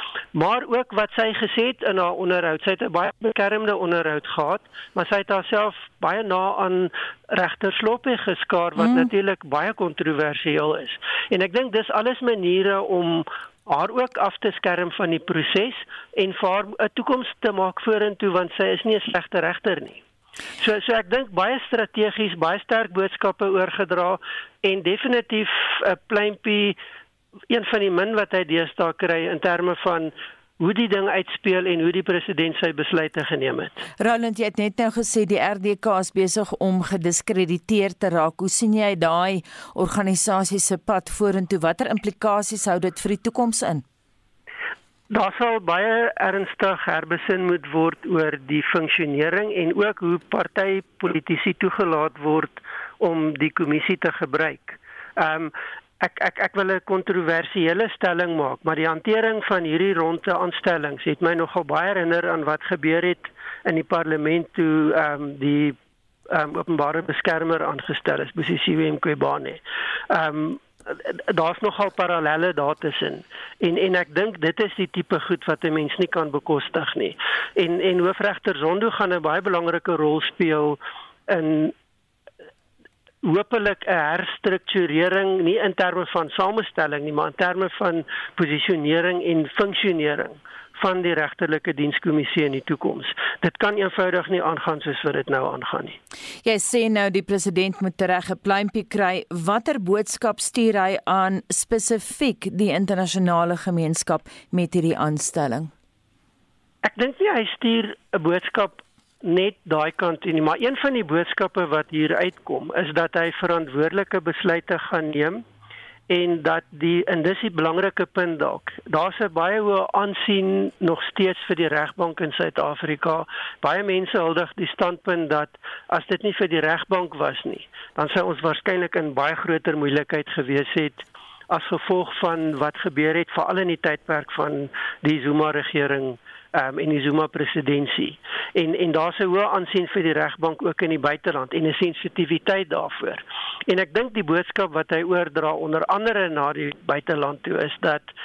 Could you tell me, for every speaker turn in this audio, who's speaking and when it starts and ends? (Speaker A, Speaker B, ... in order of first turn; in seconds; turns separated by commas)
Speaker A: 0.3-20.0, Speaker B: 8.8-9.1, Speaker A: 20.6-26.8, Speaker A: 27.5-33.8, Speaker B: 34.0-43.9, Speaker A: 45.1-65.8, Speaker A: 66.3-81.7, Speaker A: 83.2-96.0, Speaker B: 96.4-105.7, Speaker A: 106.8-115.4, Speaker A: 116.1-148.1